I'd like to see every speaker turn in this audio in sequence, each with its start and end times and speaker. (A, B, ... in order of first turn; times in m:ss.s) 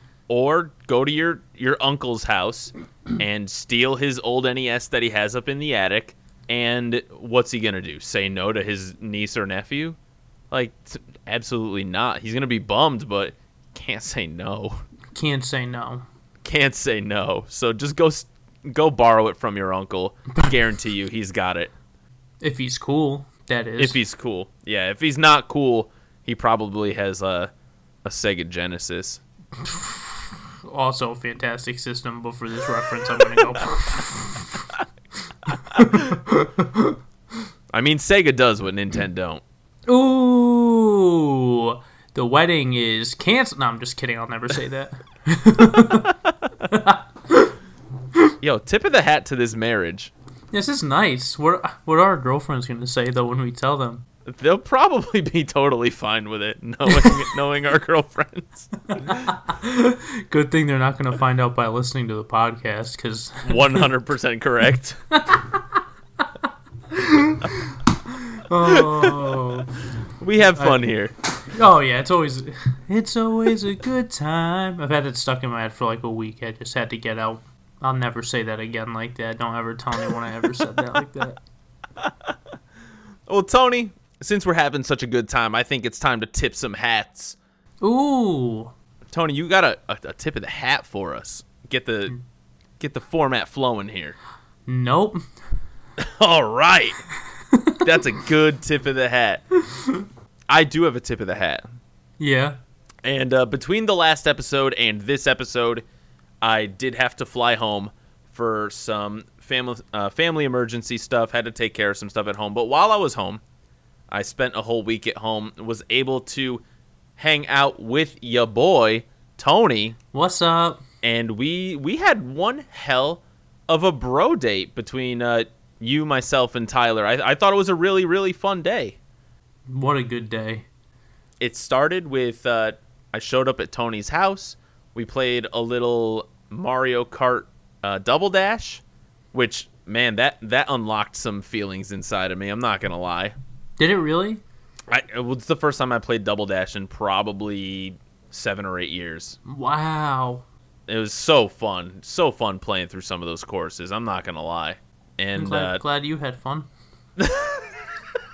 0:00.3-0:10.0 A
0:10.5-0:14.8 A
0:15.2-0:16.0 B
0:16.4-0:21.7 A
0:22.4-0:24.0 B
0:23.8-0:27.5 A
0:28.0-0:29.2 A
0:29.6-0:34.7 B
0:35.5-0:37.0 B
0:35.8-0:36.1 A
0:37.7-0:39.4 A
0:39.9-0:46.1 B
0:45.8-0:46.5 A
0:46.7-0:47.5 B
0:48.4-0:50.1 A
0:50.5-0:54.1 B
0:54.3-0:59.3 A
0:56.9-0:57.2 B
0:58.9-1:03.9 B
1:03.5-1:05.0 A
1:05.1-1:09.8 B
1:08.6-1:09.6 A
1:10.2-1:11.1 A
1:10.4-1:10.8 B
1:11.5-1:21.4 B
1:22.0-1:22.4 A
1:23.3-1:27.4 A
1:27.8-1:28.7 B
1:29.1-1:32.1 A
1:32.8-1:34.2 A
1:34.7-1:35.2 B
1:36.0-1:37.0 A
1:37.5-1:37.8 B
1:37.8-1:39.4 A
1:39.7-1:40.0 B
1:40.5-1:41.6 A
1:42.2-1:42.6 B
1:43.0-1:45.8 A
1:46.4-1:53.4 A
1:54.1-1:56.6 A
1:57.2-2:00.0 A
2:00.1-2:00.8 B
2:01.0-2:09.0 A
2:09.7-2:10.7 B
2:11.4-2:18.8 A
2:19.3-2:23.4 A
2:23.8-2:24.4 B
2:24.9-2:29.4 A
2:29.4-2:30.4 B
2:30.9-2:35.8 A
2:35.4-2:36.7 B
2:37.2-2:37.8 A